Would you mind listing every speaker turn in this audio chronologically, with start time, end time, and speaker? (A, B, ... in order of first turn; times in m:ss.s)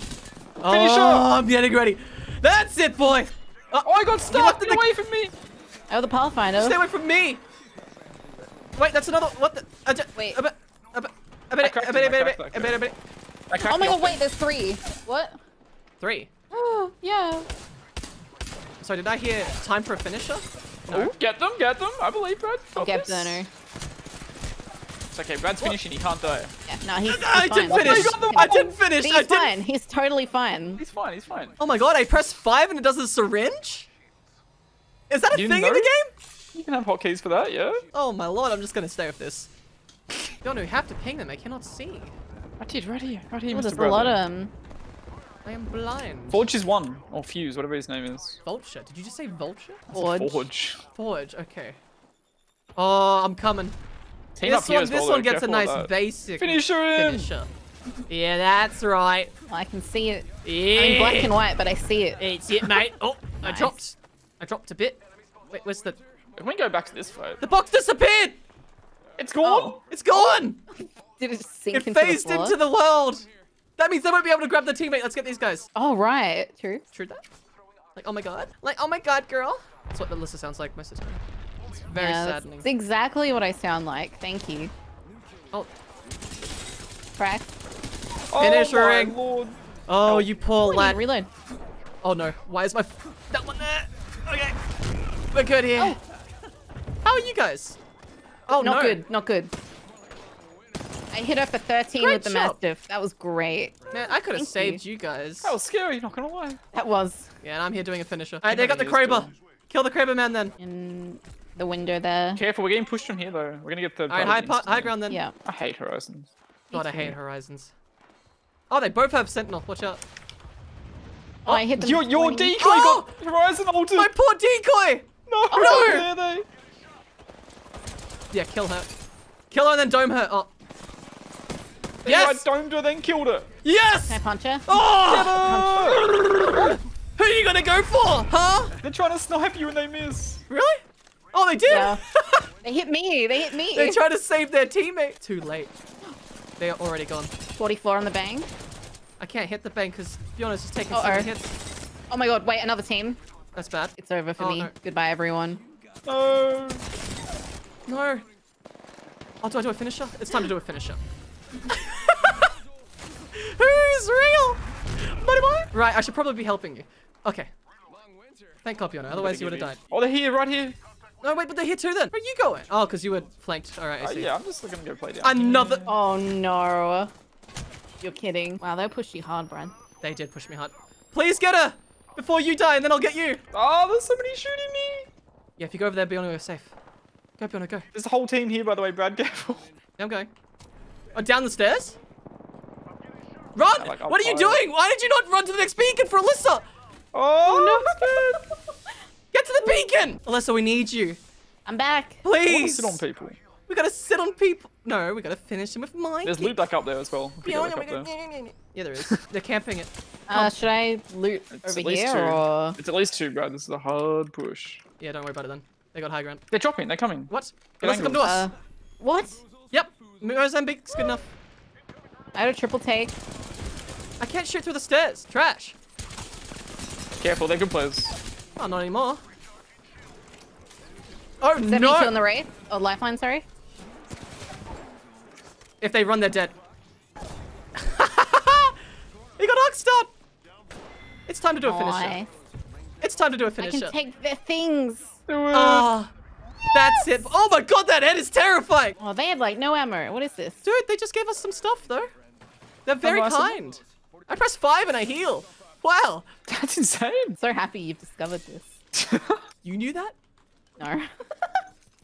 0:00.6-0:04.9 A
0:00.7-0:01.3 B
0:03.8-0:05.3 B
0:05.9-0:06.8 C
0:06.6-0:07.4 A
0:08.8-0:13.0 A
0:11.6-0:12.8 B
0:13.5-0:14.2 B
0:13.6-0:15.4 C
0:16.0-0:16.3 A
0:16.5-0:17.5 C
0:18.8-0:21.1 A
0:20.9-0:23.4 B
0:22.8-0:23.5 C
0:25.1-0:26.5 B
0:26.7-0:30.8 C
0:27.0-0:29.5 A
0:27.6-0:28.6 B
0:30.8-0:31.6 B
0:31.6-0:33.9 A
0:35.1-0:36.1 A
0:35.3-0:35.9 B
0:36.5-0:37.8 B
0:37.9-0:39.5 A
0:40.4-0:42.1 A
0:42.6-0:44.2 B
0:43.5-0:44.5 C
0:45.4-0:46.5 A
0:46.3-0:48.4 B
0:48.4-0:49.8 A
0:49.9-0:50.8 B
0:49.9-0:50.5 C
0:50.9-0:51.8 A
0:52.8-0:53.8 A
0:54.4-0:57.3 B
0:54.4-0:57.5 A
0:58.1-0:59.3 A
0:59.5-1:02.9 C
1:00.4-1:01.4 A
1:02.2-1:05.0 A
1:03.4-1:03.8 C
1:05.5-1:06.0 A
1:06.4-1:07.4 B
1:07.4-1:08.4 A
1:09.2-1:09.8 B
1:09.4-1:09.8 C
1:09.9-1:10.6 A
1:10.8-1:12.6 C
1:11.7-1:15.7 A
1:15.8-1:16.9 C
1:16.9-1:17.2 A
1:18.0-1:21.2 A
1:21.9-1:22.7 A
1:22.0-1:24.7 C
1:27.2-1:27.5 C
1:28.3-1:30.3 B
1:28.4-1:29.2 A
1:29.9-1:31.0 A
1:30.6-1:31.3 C
1:32.0-1:34.6 A
1:35.3-1:36.0 A
1:37.0-1:37.8 A
1:38.5-1:39.0 A
1:38.5-1:39.5 C
1:41.1-1:44.8 C
1:42.0-1:42.6 A
1:43.9-1:45.5 A
1:45.4-1:46.6 B
1:46.7-1:47.3 C
1:47.4-1:50.6 A
1:48.4-1:49.3 B
1:50.6-1:52.4 C
1:52.4-1:54.9 B
1:54.1-1:55.2 A
1:55.1-1:55.4 C
1:55.4-1:56.3 B
1:56.7-1:57.2 C
1:56.7-1:57.7 A
1:58.7-2:00.0 A
2:01.4-2:02.6 C
2:01.5-2:04.1 B
2:02.6-2:03.1 A
2:03.9-2:06.1 A
2:05.3-2:06.5 B
2:05.5-2:06.0 C
2:08.3-2:08.9 A
2:09.5-2:10.5 A
2:12.0-2:13.5 B
2:12.0-2:12.4 A
2:13.6-2:18.7 A
2:14.1-2:15.9 C
2:15.1-2:16.0 B
2:18.8-2:20.4 B
2:20.5-2:22.4 A
2:21.7-2:22.0 C
2:22.6-2:24.0 C
2:23.7-2:25.7 A
2:26.6-2:27.3 A
2:27.6-2:28.5 C
2:29.2-2:31.5 A
2:30.9-2:31.3 C
2:32.1-2:33.2 C
2:33.6-2:34.7 A
2:34.0-2:35.6 C
2:36.0-2:36.8 B
2:37.9-2:38.2 A
2:39.4-2:41.0 A
2:41.7-2:42.5 A
2:43.3-2:47.5 A
2:48.6-2:49.8 A
2:49.1-2:50.8 B
2:51.2-2:54.3 A
2:54.0-2:55.8 B
2:55.2-2:55.9 A
2:55.9-2:57.1 C
2:58.0-2:59.7 C
3:00.0-3:03.4 A
3:03.5-3:05.1 B
3:05.6-3:06.8 A
3:07.4-3:07.9 A
3:07.9-3:09.7 B
3:10.0-3:10.3 A
3:11.1-3:12.0 A
3:13.6-3:16.7 A
3:13.8-3:14.6 B
3:17.1-3:18.4 B
3:17.4-3:17.9 A
3:17.9-3:18.4 C
3:19.3-3:21.2 A
3:21.7-3:22.2 C
3:22.2-3:23.0 A
3:22.4-3:23.4 B
3:23.7-3:26.6 A
3:26.2-3:28.1 B
3:27.4-3:30.6 A
3:30.3-3:32.8 C
3:31.5-3:34.8 B
3:35.0-3:36.4 A
3:36.5-3:38.4 B
3:37.3-3:38.5 A
3:38.1-3:39.4 C
3:39.7-3:41.3 A
3:42.4-3:43.2 C
3:44.2-3:45.8 A
3:47.2-3:48.2 B
3:48.6-3:49.2 A
3:51.4-3:52.1 A
3:51.6-3:53.4 C
3:55.8-3:56.5 A
3:57.8-3:58.8 A
3:59.4-4:00.1 A
4:01.3-4:02.2 A
4:01.6-4:02.3 C
4:03.0-4:03.9 A
4:03.6-4:05.2 C
4:05.3-4:05.9 B
4:05.5-4:06.1 A
4:06.7-4:09.0 A
4:09.0-4:10.7 C
4:10.6-4:12.1 A
4:12.9-4:16.3 A
4:13.0-4:13.6 B
4:16.5-4:17.4 B
4:17.4-4:18.8 C
4:19.0-4:19.4 B
4:19.6-4:20.2 A
4:20.8-4:21.1 C